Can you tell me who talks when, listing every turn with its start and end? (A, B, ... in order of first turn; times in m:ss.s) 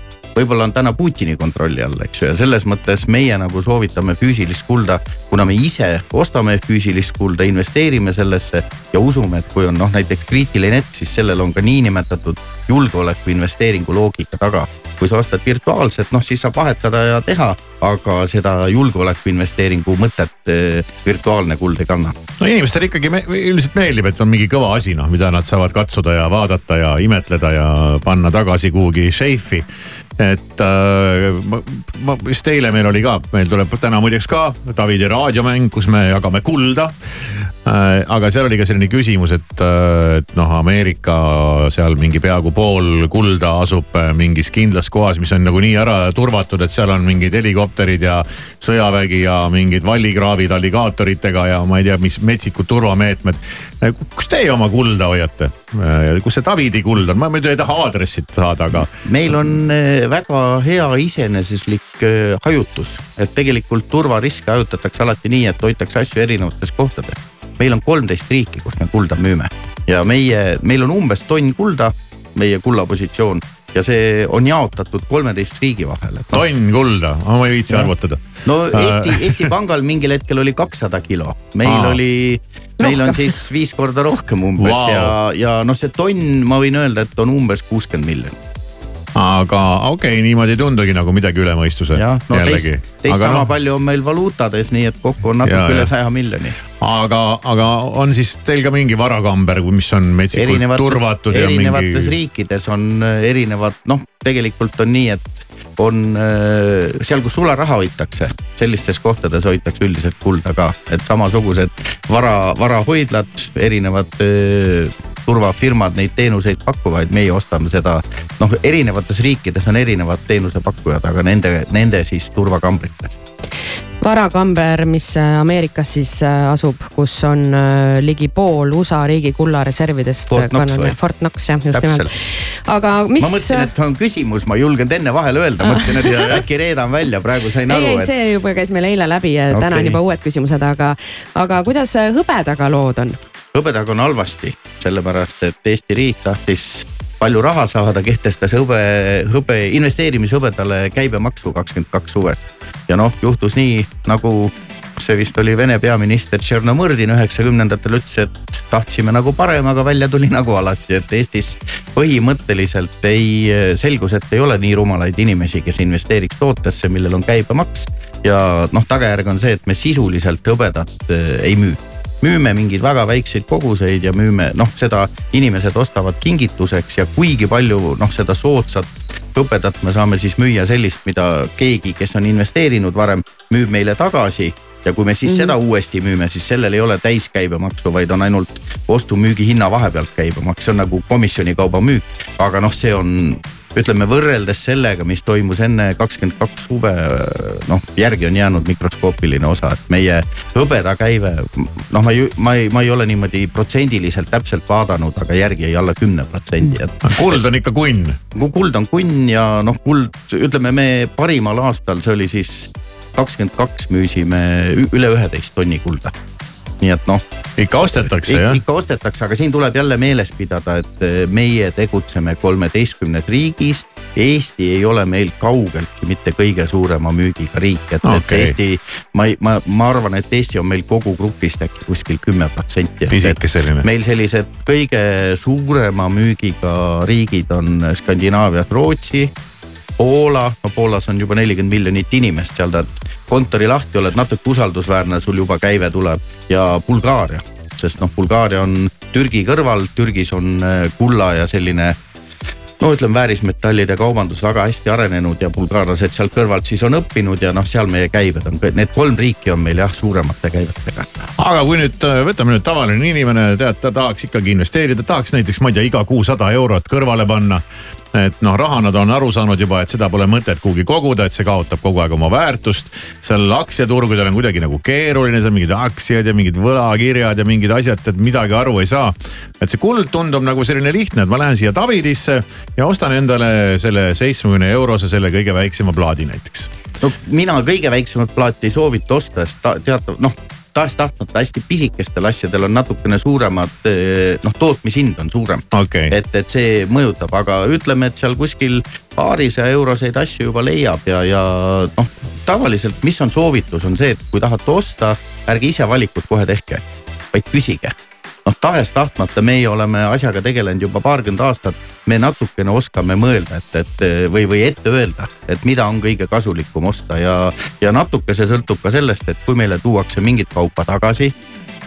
0:00.4-0:22.2 A
0:22.4-0:29.7 B
0:30.2-0:36.9 B
0:37.6-0:58.9 B
0:58.8-1:16.6 A
1:16.3-1:18.2 B
1:18.4-1:28.4 A
1:18.7-1:19.5 B
1:21.6-1:22.0 B
1:22.8-1:23.2 C
1:24.6-1:25.1 B
1:29.2-1:33.5 B
1:32.0-1:36.6 A
1:35.4-1:35.9 B
1:36.8-1:42.1 B
1:40.3-2:03.2 A
2:04.0-2:13.7 C
2:10.3-2:11.0 A
2:11.7-2:12.1 A
2:13.2-2:18.2 A
2:15.6-2:16.3 C
2:17.7-2:23.2 C
2:19.5-2:20.0 A
2:23.5-3:27.4 A
3:05.3-3:05.5 C
3:27.1-3:28.2 B
3:28.4-3:36.2 A
3:36.8-3:37.2 A
3:37.6-3:38.6 B
3:37.8-3:59.3 A
3:48.0-3:48.6 B
3:53.1-3:53.9 B
4:00.0-4:12.0 A
4:12.8-4:21.1 A
4:21.4-4:27.6 B
4:28.1-4:46.7 B
4:47.0-5:21.3 A
4:55.7-4:56.1 B